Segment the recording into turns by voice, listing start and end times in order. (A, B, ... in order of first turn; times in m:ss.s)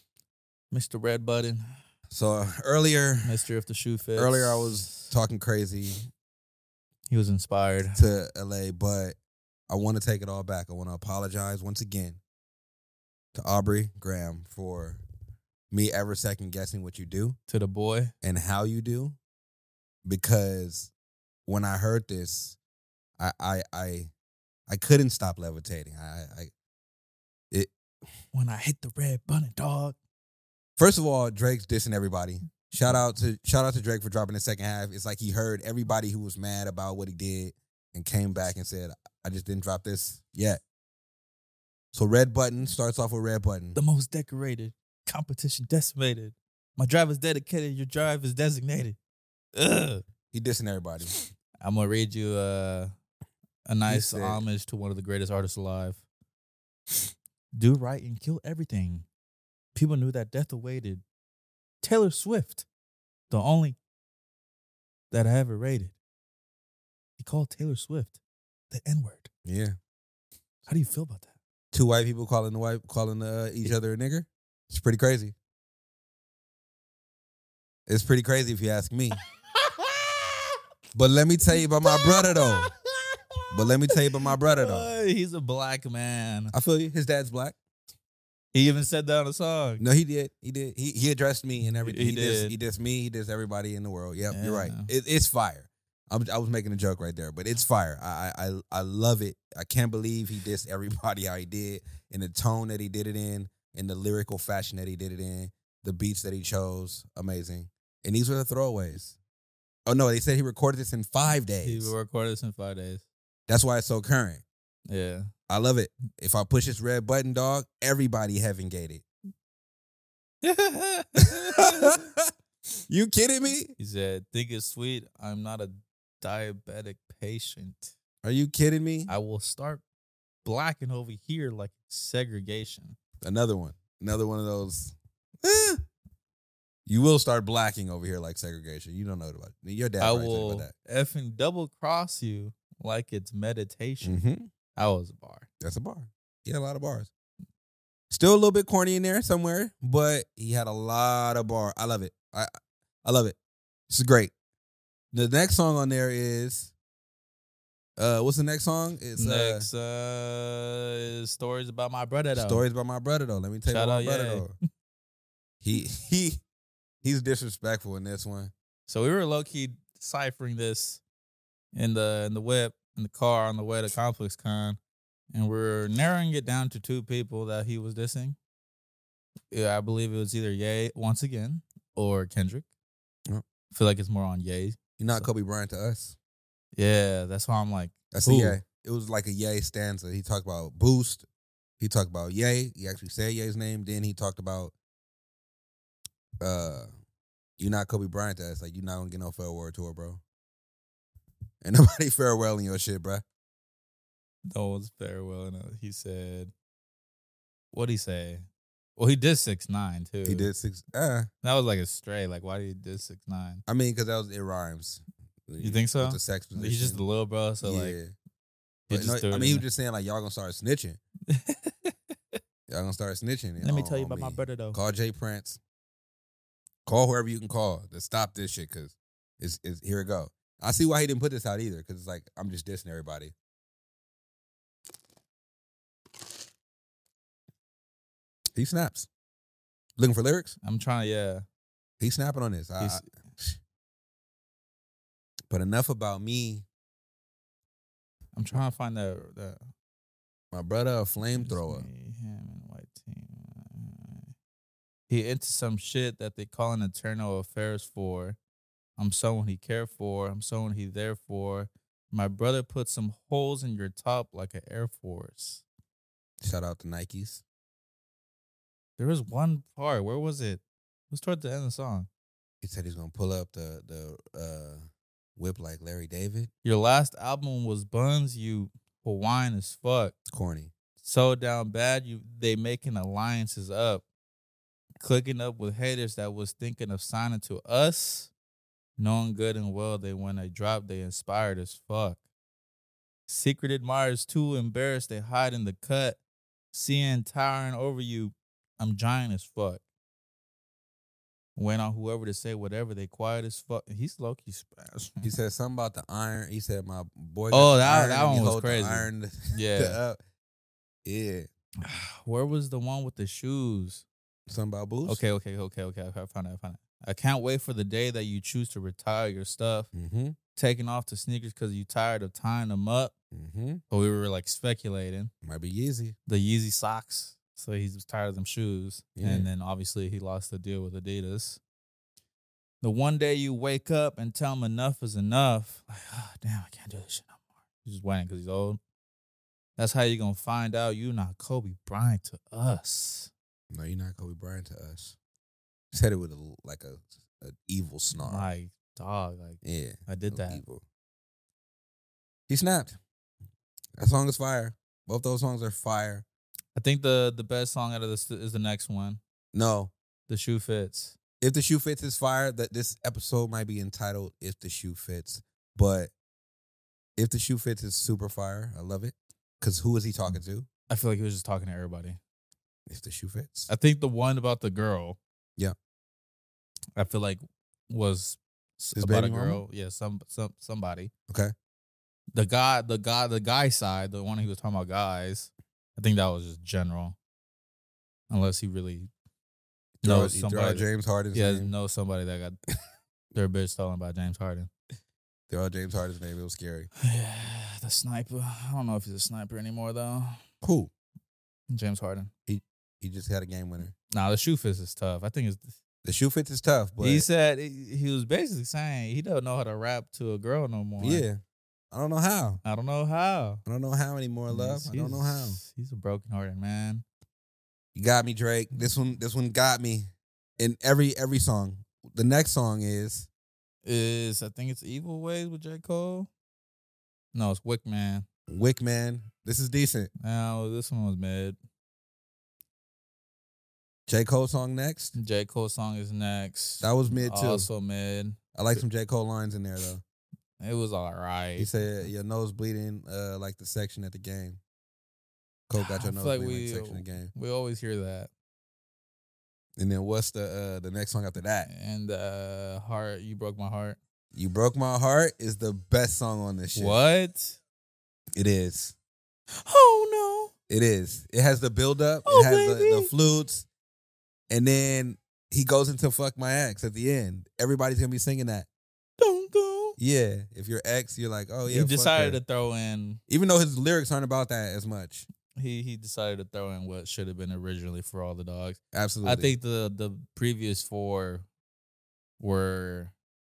0:00.7-0:01.6 A
0:02.1-0:03.3 B
0:03.2-0:05.1 A
0:04.2-0:06.1 B
0:07.1-0:08.0 A
0:07.9-0:09.2 B
0:09.7-0:12.2 B
0:13.3-0:15.0 B
0:15.7-0:17.4 B
0:17.5-0:18.1 A
0:18.2-0:19.2 B
0:20.0-0:20.9 B
0:21.4-0:22.6 B
0:23.2-0:24.1 B
0:24.7-0:26.5 B
0:28.3-0:30.0 A
0:30.8-0:40.6 B
0:41.9-0:43.8 B
0:43.8-0:49.0 A
0:49.5-0:50.0 A
0:50.3-0:51.2 B
0:51.6-0:52.9 A
0:53.6-0:56.0 A
0:53.8-0:54.4 B
0:57.5-0:59.0 A
0:59.7-1:01.0 A
1:01.8-1:02.6 A
1:03.3-1:03.8 A
1:05.1-1:05.9 A
1:07.2-1:08.2 A
1:08.7-1:09.3 A
1:09.4-1:09.8 B
1:10.6-1:11.3 A
1:11.7-1:15.3 B
1:17.9-1:19.2 B
1:19.5-1:20.4 A
1:20.9-1:22.7 B
1:21.5-1:23.2 A
1:23.5-1:24.9 B
1:23.9-1:26.5 A
1:26.5-1:27.6 B
1:28.5-1:29.8 A
1:29.8-1:49.2 B
1:31.8-1:32.5 A
1:34.3-1:34.9 A
1:49.8-1:51.9 B
1:51.6-1:53.0 A
1:53.5-1:54.4 B
1:54.9-1:55.3 A
1:55.5-1:59.0 B
2:00.4-2:02.0 A
2:01.3-2:02.2 B
2:02.9-2:03.7 B
2:03.8-2:07.9 A
2:08.2-2:09.1 B
2:09.1-2:09.8 A
2:10.4-2:13.0 A
2:13.2-2:15.8 B
2:16.8-2:20.7 B
2:20.0-2:24.2 A
2:24.0-2:24.5 B
2:24.8-2:25.5 A
2:25.6-2:27.1 B
2:28.1-2:32.5 B
2:33.0-2:33.4 B
2:33.9-2:34.3 B
2:35.1-2:36.7 B
2:38.0-2:39.7 B
2:39.2-2:42.6 A
2:42.3-2:44.5 B
2:43.6-2:44.5 A
2:45.6-2:46.4 B
2:47.0-2:48.5 B
2:48.9-2:51.0 A
2:51.7-2:54.8 A
2:55.3-2:58.4 A
2:59.5-3:02.6 A
3:03.7-3:05.3 A
3:05.0-3:06.2 B
3:06.7-3:08.6 A
3:08.1-3:11.2 B
3:11.8-3:14.7 B
3:16.4-3:16.9 B
3:17.6-3:20.2 B
3:21.6-3:23.2 B
3:24.5-3:26.5 A
3:27.7-3:28.4 A
3:29.0-3:30.5 A
3:30.2-3:31.3 B
3:31.4-3:33.6 A
3:33.7-3:37.0 B
3:35.6-3:38.0 A
3:37.6-3:38.1 B
3:38.9-3:39.6 A
3:38.9-3:41.0 B
3:41.3-3:42.4 A
3:42.7-3:45.6 B
3:43.6-3:44.8 A
3:46.8-3:53.3 B
3:58.6-3:59.1 B
4:00.0-4:00.6 B
4:00.6-4:01.4 A
4:02.0-4:03.6 B
4:02.8-4:03.1 A
4:05.5-4:06.6 B
4:08.3-4:09.7 A
4:10.5-4:11.9 B
4:11.4-4:14.3 A
4:15.1-4:18.4 A
4:19.0-4:25.6 A
4:26.4-4:27.4 B
4:29.0-4:32.1 A
4:32.6-4:34.8 B
4:35.4-4:36.5 B
4:36.6-4:40.2 A
4:40.3-4:40.7 B
4:41.0-4:44.0 A
4:45.0-4:48.3 A
4:49.0-4:52.2 A
4:53.3-4:56.2 A
4:56.7-4:59.8 A
5:01.6-5:05.3 A
5:05.2-5:10.2 B
5:07.5-5:10.0 A
5:11.0-5:11.5 B
5:11.8-5:14.0 A
5:14.5-5:15.2 B
5:15.0-5:19.9 A
5:19.9-5:20.4 B
5:20.6-5:23.1 A
5:23.3-5:23.8 B
5:23.9-5:25.3 A
5:25.4-5:26.2 B
5:26.3-5:31.6 A
5:29.1-5:29.5 B
5:32.8-5:38.8 A
5:39.8-5:43.3 A
5:43.7-5:45.2 B
5:45.9-5:48.5 B
5:48.2-5:50.6 A
5:49.6-5:50.8 B
5:52.5-5:53.0 B
5:54.0-5:56.2 B
5:56.7-5:59.2 A
5:59.5-5:59.9 B
6:00.3-6:01.2 A
6:01.4-6:06.1 B
6:07.2-6:10.7 B
6:10.9-6:12.2 A
6:12.9-6:13.7 B
6:13.7-6:15.2 A
6:17.0-6:21.1 A
6:19.0-6:19.6 B
6:22.3-6:27.2 A
6:28.3-6:29.1 A
6:30.0-6:31.7 B
6:30.0-6:32.6 A
6:33.3-6:34.7 A
6:35.5-6:36.9 B
6:37.0-6:40.4 A
6:40.6-6:40.9 B
6:41.7-6:42.3 A
6:42.5-6:43.9 B
6:44.1-6:45.8 A
6:46.0-6:47.3 B
6:47.0-6:51.2 A
6:51.0-6:51.4 B
6:51.9-6:52.6 B
6:52.6-6:53.6 A
6:53.6-6:55.6 B
6:54.5-6:57.0 A
6:57.9-7:03.3 B
7:03.8-7:06.3 A
7:07.3-7:08.2 A
7:08.5-7:10.1 B
7:10.2-7:11.6 A
7:14.1-7:15.2 B
7:15.2-7:18.8 A
7:16.8-7:17.7 B
7:18.5-7:20.0 B
7:20.6-7:22.1 A
7:21.6-7:24.6 B
7:25.7-7:27.3 B
7:25.8-7:28.3 A
7:29.8-7:31.7 B
7:31.7-7:34.0 A
7:34.3-7:37.0 B
7:36.7-7:37.6 A
7:38.4-7:39.0 B
7:39.6-7:40.5 A
7:40.7-7:43.7 B
7:42.2-7:43.1 A
7:44.5-7:48.7 B
7:49.2-7:50.0 A
7:50.0-7:52.4 B
7:51.7-7:53.2 A
7:53.3-7:55.3 B
7:55.5-8:01.4 A
7:58.9-7:59.6 B
8:02.4-8:03.1 A